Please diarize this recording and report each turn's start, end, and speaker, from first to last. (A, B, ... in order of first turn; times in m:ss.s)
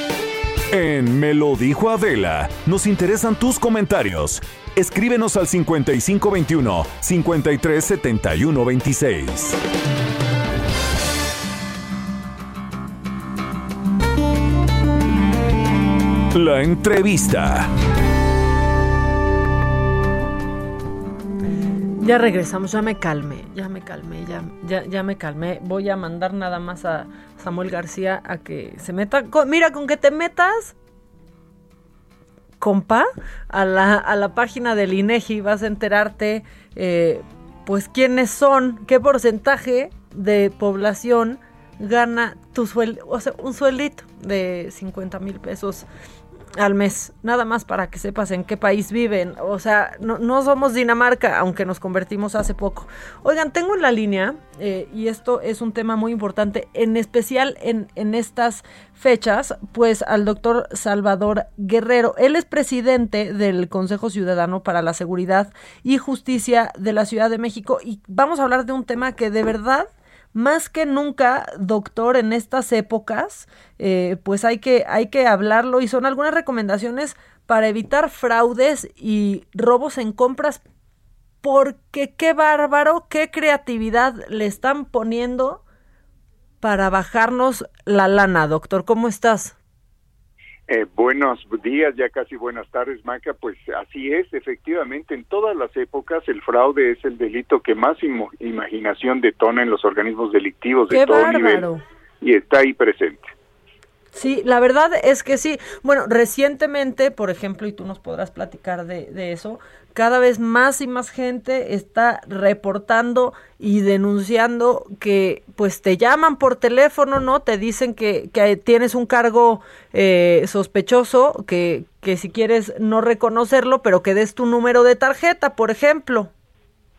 0:00.7-0:09.6 A
0:16.3-0:17.7 A
0:22.0-0:30.7 B
0:32.6-0:45.9 B
0:46.6-1:20.6 B
1:21.4-1:25.6 B
1:26.6-1:29.6 B
1:30.7-1:41.7 C
1:40.9-1:41.8 B
1:42.2-1:43.3 C
1:44.1-2:06.3 B